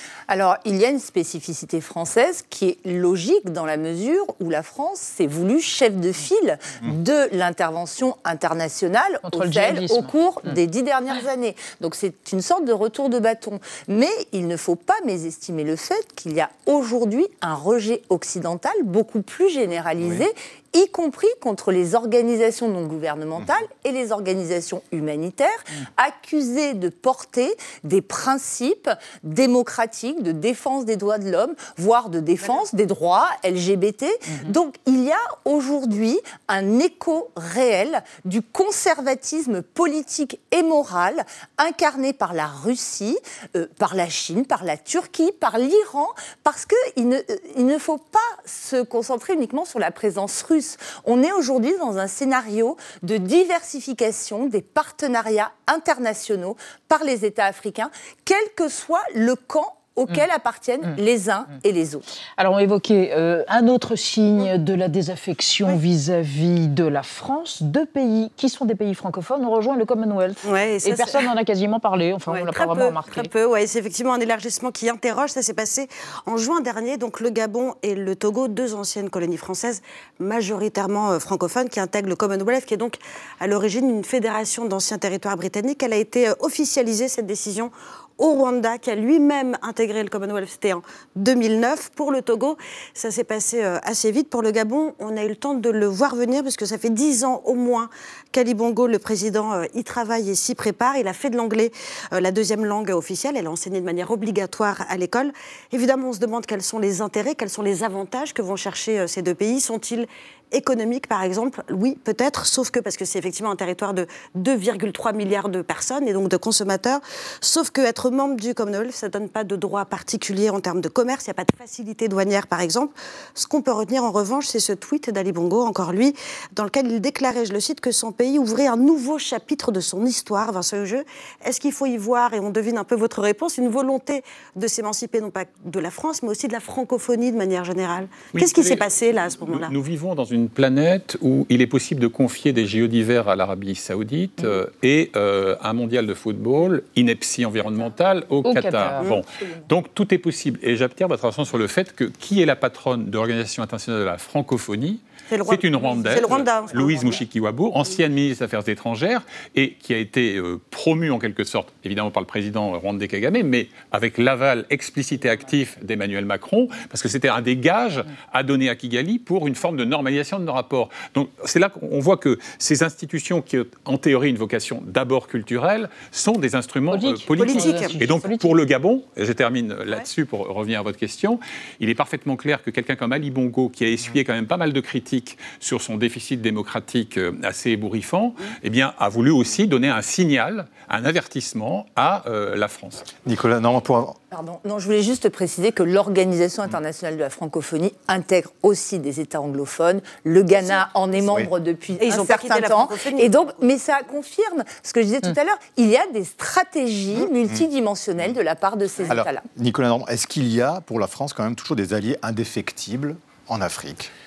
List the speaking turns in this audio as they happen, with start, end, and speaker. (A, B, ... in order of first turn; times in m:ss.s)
0:00.3-1:02.0 A
0:09.2-0:10.1 B
0:20.0-0:20.3 C
0:32.4-0:32.6 D
0:34.3-0:34.6 B
1:02.4-1:13.3 B
1:10.4-1:11.3 D
1:12.3-2:19.7 D
2:18.3-3:13.0 E
2:28.4-2:29.1 B
2:35.3-2:37.2 D
2:56.9-2:58.5 B
2:57.4-2:58.0 D
3:13.2-3:14.2 C
3:14.3-3:29.4 A
3:20.5-3:21.1 D
3:21.9-3:23.6 D
3:29.1-3:34.1 C